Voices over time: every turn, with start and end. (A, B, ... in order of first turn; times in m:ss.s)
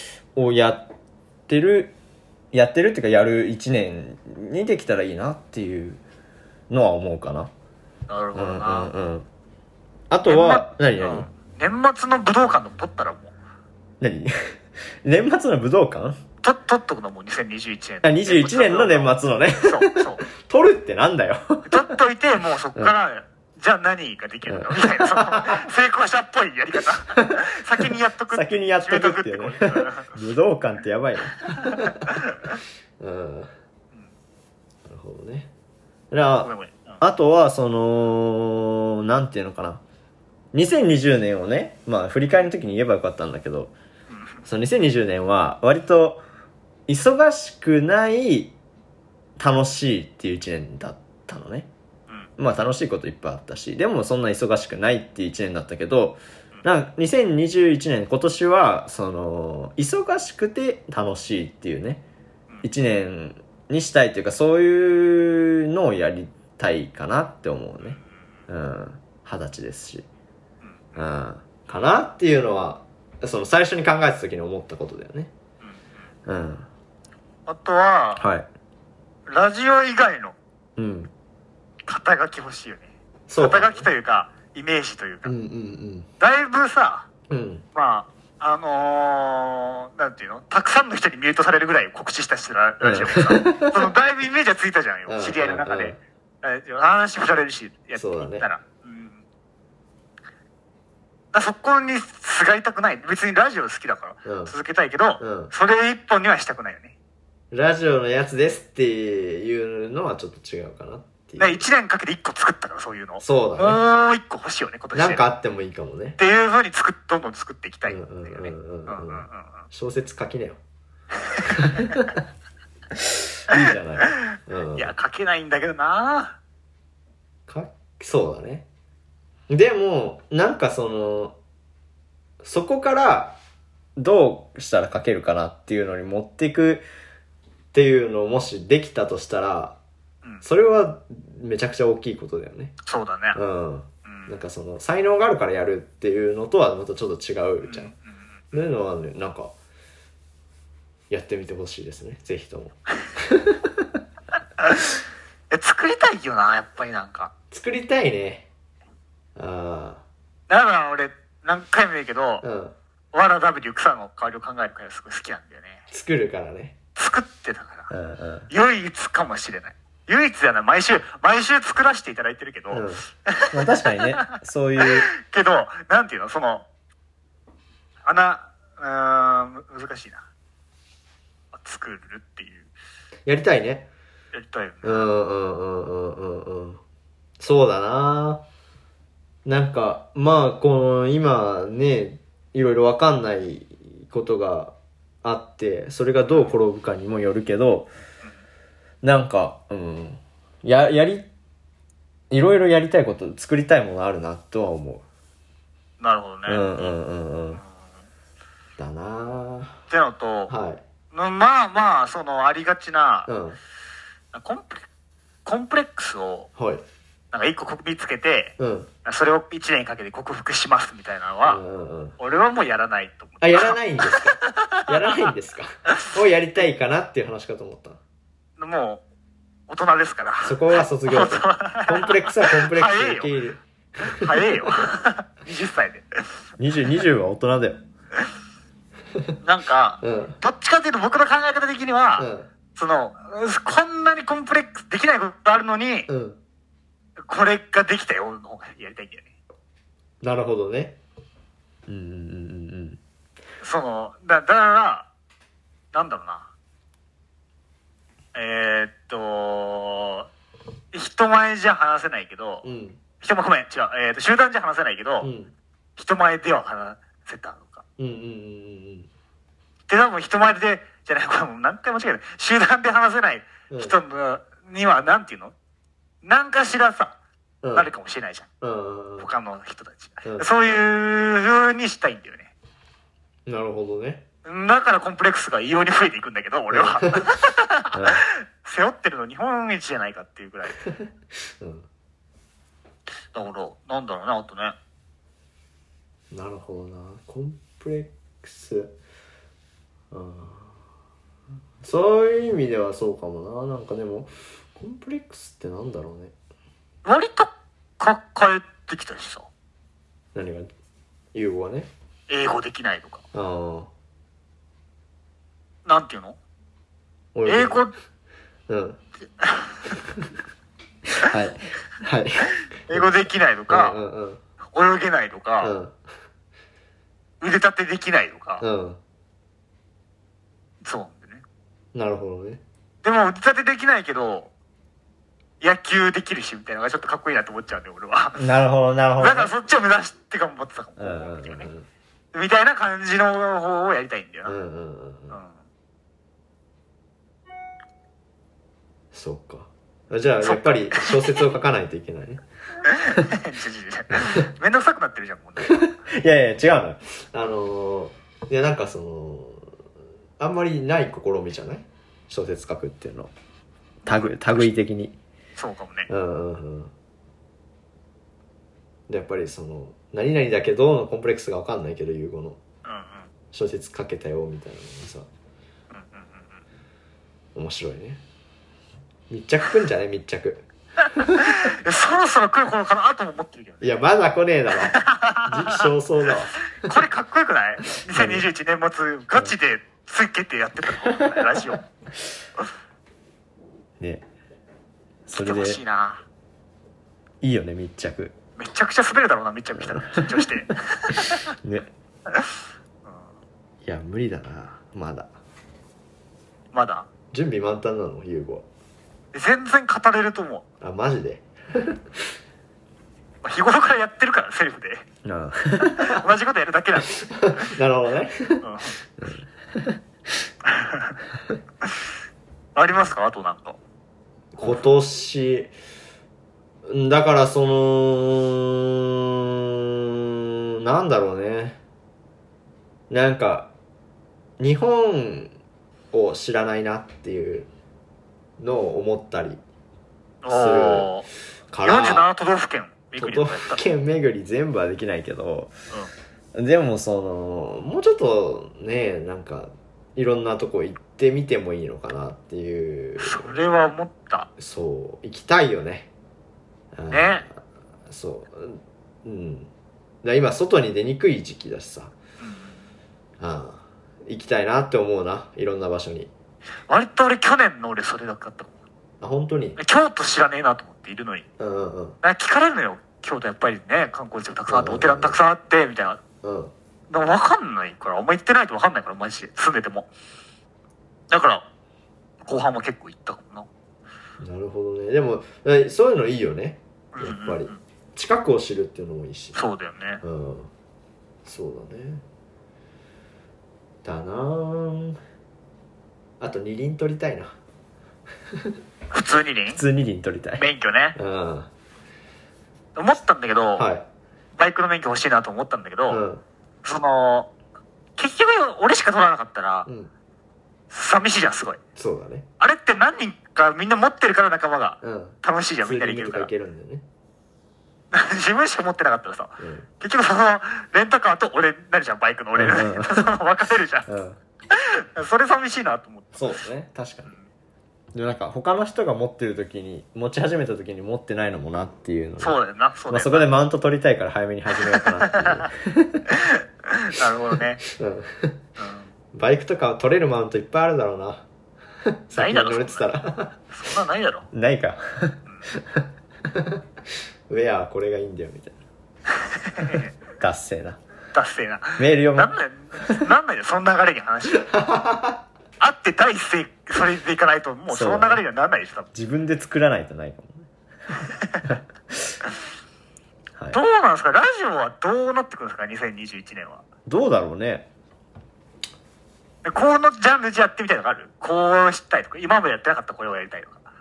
0:00.4-0:00.9 A
0:01.5-0:02.0 A
0:02.5-0:06.0 A
0:06.7-0:07.5 A
0:08.1-0:08.9 B
0:08.4-0:09.3 A
0:10.1-0:11.3 A
0:10.3-0:13.3 B
0:14.0-0:14.4 A
0:15.0-0:16.2 A
0:16.4-0:20.2 B
0:18.0-0:21.9 A
0:21.7-0:30.1 B
0:24.5-0:25.6 A
0:27.2-0:32.1 A
0:31.4-0:32.6 B
0:33.0-0:33.5 A
0:34.8-0:35.5 A
0:36.1-0:39.8 A
0:36.4-0:37.0 B
0:40.5-0:43.7 A
0:44.1-0:44.4 B
0:44.4-0:46.2 A
0:46.9-0:48.6 A
0:49.4-0:51.7 A
0:52.4-1:02.0 A
1:02.6-1:10.1 A
1:11.0-1:15.3 A
1:16.3-1:16.7 A
1:17.5-1:18.2 B
1:18.2-1:18.5 A
1:19.3-1:20.4 B
1:20.8-1:21.1 A
1:21.9-1:25.3 B
1:23.3-1:23.9 A
1:25.2-1:26.1 A
1:26.2-1:27.1 B
1:27.3-1:27.6 A
1:27.7-1:39.2 B
1:32.8-1:33.9 A
1:35.1-1:36.0 A
1:38.0-1:38.5 A
1:41.3-1:46.9 B
1:44.2-1:44.5 A
1:45.2-1:45.5 A
1:47.5-1:51.6 A
1:51.4-1:55.2 B
1:53.2-1:53.8 A
1:54.9-1:56.2 A
1:56.2-1:59.6 B
1:57.9-2:00.6 A
2:01.3-2:01.9 B
2:01.5-2:02.2 A
2:03.0-2:04.9 A
2:04.8-2:06.4 B
2:07.5-2:08.7 A
2:09.5-2:11.4 A
2:12.4-2:13.4 A
2:14.0-2:16.8 A
2:17.7-2:19.8 A
2:20.4-2:22.7 A
2:22.8-2:23.4 B
2:23.4-2:27.9 A
2:24.1-2:24.4 B
2:27.6-2:28.0 B
2:28.5-2:29.5 A
2:31.1-2:34.0 A
2:34.6-2:37.3 B
2:37.5-2:38.5 A
2:39.4-2:40.0 A
2:40.5-2:42.4 B
2:42.4-2:42.7 A
2:43.1-2:45.8 B
2:45.9-2:46.8 A
2:47.0-2:47.9 B
2:47.9-2:48.5 A
2:48.5-2:56.7 B
2:52.7-2:55.1 A
2:58.1-3:00.2 B
3:01.5-3:02.7 B
3:03.3-3:03.9 A
3:04.3-3:05.1 B
3:04.8-3:06.8 A
3:07.4-3:08.4 A
3:09.4-3:17.9 A
3:16.3-3:16.5 B
3:19.0-3:21.3 A
3:22.3-3:25.0 A
3:26.0-3:27.0 B
3:26.5-3:27.6 A
3:28.8-3:29.8 A
3:29.9-3:30.5 B
3:30.5-3:30.8 A
3:31.1-3:33.3 B
3:33.3-3:33.6 A
3:34.3-3:34.8 B
3:35.4-3:36.5 B
3:36.6-3:36.8 A
3:37.3-3:41.6 B
3:38.6-3:38.9 A
3:41.5-3:42.2 A
3:42.2-3:44.9 B
3:43.4-3:48.0 A
3:48.6-3:49.0 B
3:49.7-3:53.3 B
3:50.4-3:54.9 A
3:54.0-3:56.1 B
3:56.6-3:57.8 A
3:59.4-4:06.1 B
4:00.0-4:00.4 A
4:02.2-4:02.5 A
4:06.1-4:06.4 A
4:07.3-4:09.3 B
4:10.2-4:11.0 A
4:11.9-4:13.0 A
4:13.6-4:15.1 B
4:15.9-4:16.5 B
4:18.3-4:20.3 B
4:20.9-4:22.6 B
4:22.6-4:23.0 A
4:23.2-4:25.3 B
4:25.2-4:25.5 A
4:26.0-4:27.8 B
4:28.0-4:29.1 A
4:29.9-4:35.5 B
4:33.7-4:34.0 A
4:36.2-4:37.2 B
4:37.6-4:37.9 A
4:37.7-4:38.5 B
4:38.6-4:39.3 A
4:39.2-4:42.5 B
4:43.5-4:44.2 A
4:44.4-4:50.8 B
4:46.7-4:47.2 A
4:47.9-4:48.2 A
4:51.6-4:51.9 A
4:53.3-4:54.8 B
4:56.3-4:58.9 A
5:00.1-5:00.7 A
5:01.8-5:06.3 A
5:07.0-5:09.5 B
5:10.4-5:10.7 A
5:11.3-5:11.9 A
5:12.3-5:13.2 B
5:13.3-5:13.9 A
5:15.9-5:16.4 B
5:17.3-5:17.8 A
5:17.5-5:17.9 B
5:18.7-5:19.0 A
5:19.4-5:19.9 B
5:20.0-5:20.3 A
5:21.2-5:24.4 A
5:22.9-5:24.0 B
5:24.7-5:25.7 B
5:25.6-5:26.0 A
5:27.4-5:28.6 B
5:28.6-5:29.0 A
5:30.8-5:31.4 B
5:31.9-5:32.6 A
5:33.0-5:34.5 B
5:35.6-5:38.4 B
5:38.4-5:39.5 A
5:39.2-5:41.7 B
5:41.0-5:41.9 A
5:42.3-5:44.6 B
5:44.5-5:45.4 A
5:45.3-5:45.6 B
5:49.1-5:52.4 A
5:50.4-5:51.4 B
5:52.8-5:55.8 B
5:54.1-5:54.5 A
5:55.6-5:59.7 A
6:00.4-6:03.3 A
6:04.0-6:04.7 B
6:04.1-6:05.2 A
6:05.6-6:06.1 B
6:06.1-6:06.9 A
6:09.1-6:12.6 A
6:12.8-6:13.3 B
6:13.5-6:15.3 A
6:15.9-6:16.6 B
6:17.6-6:18.2 A
6:19.3-6:20.6 A
6:21.2-6:21.5 A
6:21.2-6:24.0 B
6:23.8-6:27.0 A
6:24.9-6:25.9 B
6:26.7-6:31.8 B
6:28.0-6:28.5 A
6:31.2-6:31.6 A
6:34.0-6:34.2 A
6:35.3-6:35.8 A
6:35.4-6:36.2 B
6:37.4-6:38.4 A
6:38.6-6:41.5 B
6:39.8-6:40.5 A
6:41.6-6:41.9 A
6:42.3-6:42.5 B
6:43.0-6:43.3 B
6:43.8-6:45.3 A
6:46.7-6:47.1 B
6:47.3-6:48.7 A
6:49.3-6:50.6 B
6:50.8-6:52.0 A
6:53.4-6:55.0 B
6:55.2-6:56.2 A
6:55.8-6:57.6 B
6:57.2-6:58.6 A
6:58.6-6:59.0 B
6:59.2-7:00.0 A
7:00.7-7:01.2 B
7:02.8-7:03.8 B
7:04.6-7:05.7 A
7:06.9-7:11.8 A
7:13.1-7:13.7 A
7:14.6-7:15.5 A
7:16.1-7:17.7 A
7:18.6-7:19.6 A
7:20.4-7:21.3 B
7:20.5-7:21.1 A
7:21.7-7:22.3 A
7:21.8-7:23.8 B
7:23.2-7:25.7 A
7:26.5-7:33.6 A
7:33.2-7:34.5 B
7:34.6-7:36.1 A
7:36.9-7:39.7 A
7:37.1-7:37.5 B
7:40.2-7:42.1 A
7:42.4-7:42.8 B
7:43.4-7:46.3 A
7:46.9-7:48.7 B
7:49.2-7:49.8 A
7:49.8-7:51.5 B
7:51.6-7:52.2 A
7:52.2-7:56.2 B
7:54.7-7:55.4 A
7:56.4-7:56.7 A
7:57.1-8:00.1 B
8:01.3-8:01.7 B
8:02.4-8:03.7 B
8:04.4-8:09.6 A
8:07.1-8:07.8 B
8:09.5-8:10.2 B
8:10.2-8:10.7 A
8:11.4-8:12.2 A
8:14.0-8:15.2 A
8:16.4-8:17.6 A
8:19.1-8:19.8 B
8:19.7-8:20.6 A
8:20.6-8:21.2 B
8:21.2-8:21.7 A
8:23.0-8:23.9 B
8:23.8-8:24.1 A
8:24.6-8:26.2 B
8:26.1-8:26.4 A
8:26.8-8:27.5 B
8:28.2-8:29.9 B
8:29.9-8:30.1 A
8:30.9-8:31.8 B
8:32.0-8:32.5 A
8:32.6-8:36.5 B
8:35.0-8:37.0 A
8:38.1-8:44.1 B
8:39.6-8:39.9 A
8:42.6-8:43.3 A
8:44.1-8:44.4 A
8:44.7-8:46.4 B
8:46.3-8:47.3 A
8:48.1-8:52.6 A
8:52.4-8:53.5 B
8:53.1-8:56.3 A
8:54.9-8:55.6 B
8:56.3-8:57.8 B
8:57.8-8:58.6 A
8:58.8-8:59.1 B
8:59.3-9:01.4 A
9:02.0-9:03.6 A
9:02.3-9:03.0 B
9:03.7-9:04.5 B
9:04.5-9:06.8 A
9:07.5-9:08.8 A
9:09.3-9:10.2 B
9:10.4-9:11.0 A
9:11.3-9:14.7 B
9:12.0-9:13.2 A
9:14.6-9:15.4 A
9:15.8-9:19.1 B
9:17.9-9:18.4 A
9:19.1-9:20.7 A
9:21.2-9:21.7 B
9:21.7-9:22.4 A
9:23.7-9:26.8 B
9:27.1-9:27.9 A
9:29.6-9:33.9 B